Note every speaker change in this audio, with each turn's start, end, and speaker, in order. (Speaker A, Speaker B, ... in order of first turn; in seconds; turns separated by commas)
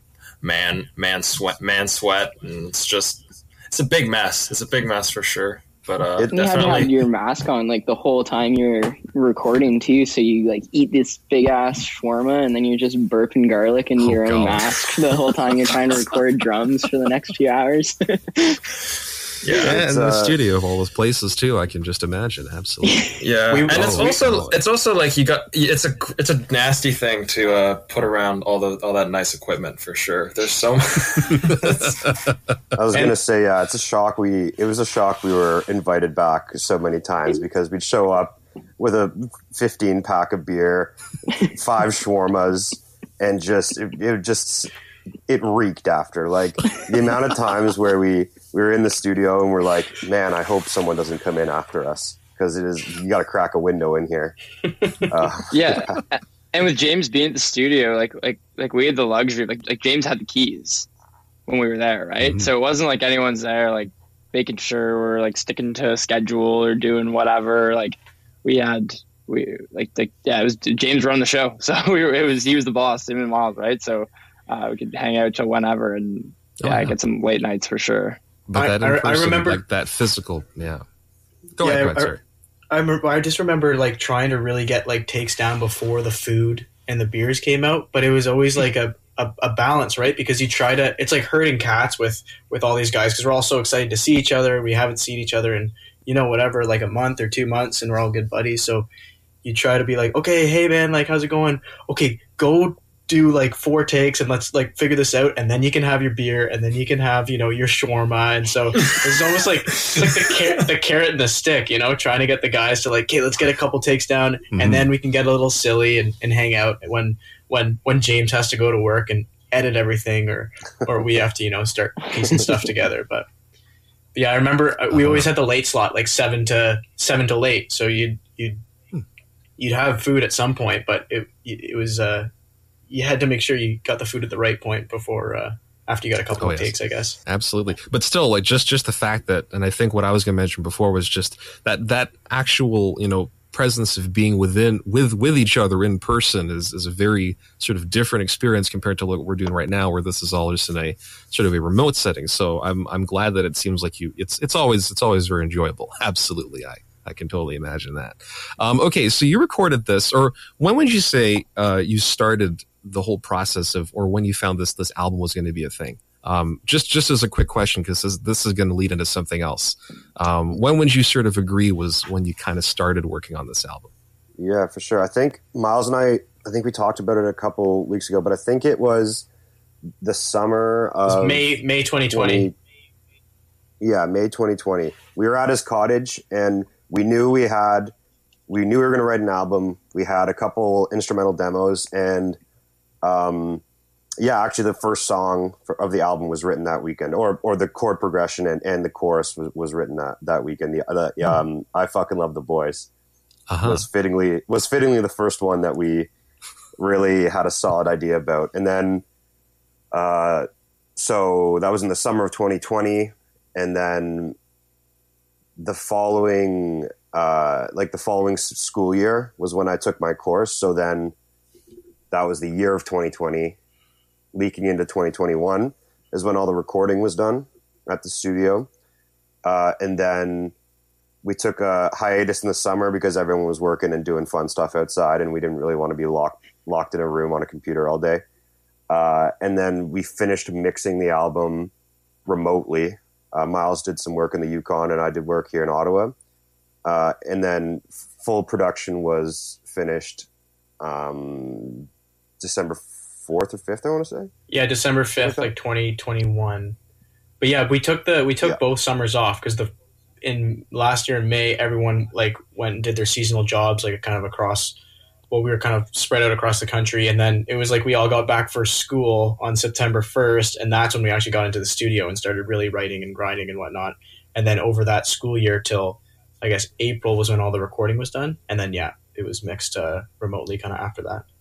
Speaker A: 0.4-7.1, Speaker B: 6.3-18.6, Speaker C: 14.0-15.0, Speaker A: 19.4-19.8, Speaker C: 19.6-23.1, Speaker D: 19.7-20.4, Speaker A: 23.2-32.1, Speaker E: 23.5-24.2, Speaker C: 23.7-24.6, Speaker D: 32.8-44.7, Speaker D: 45.3-54.4, Speaker D: 55.1-55.9, Speaker F: 55.5-60.9, Speaker F: 61.5-78.2, Speaker C: 62.2-62.5, Speaker C: 76.6-76.9, Speaker C: 78.5-80.8, Speaker E: 78.5-79.6, Speaker C: 81.6-82.2, Speaker E: 81.6-82.2, Speaker E: 82.7-98.9, Speaker E: 99.4-123.2, Speaker A: 109.8-110.1, Speaker C: 114.5-114.9, Speaker E: 124.1-128.6, Speaker C: 124.9-125.3, Speaker E: 129.6-132.3, Speaker E: 132.9-137.2, Speaker C: 136.4-136.7, Speaker C: 137.2-173.9, Speaker D: 174.4-179.2, Speaker D: 180.0-181.5, Speaker E: 181.1-182.5, Speaker D: 182.1-182.5, Speaker D: 183.8-187.9, Speaker D: 188.5-192.4, Speaker D: 193.0-193.6, Speaker D: 194.2-202.9, Speaker C: 203.5-203.8, Speaker D: 203.6-206.1, Speaker D: 206.8-209.0, Speaker D: 209.9-214.3, Speaker D: 215.6-221.1, Speaker D: 222.1-223.6, Speaker D: 224.3-228.7, Speaker D: 229.4-230.5, Speaker D: 231.2-238.2, Speaker D: 238.9-241.7, Speaker D: 242.2-246.1, Speaker D: 246.8-250.3, Speaker D: 250.8-251.9, Speaker D: 252.4-254.3, Speaker E: 254.5-256.8, Speaker D: 255.2-255.5, Speaker E: 257.4-259.7, Speaker E: 260.2-264.8, Speaker E: 265.3-281.2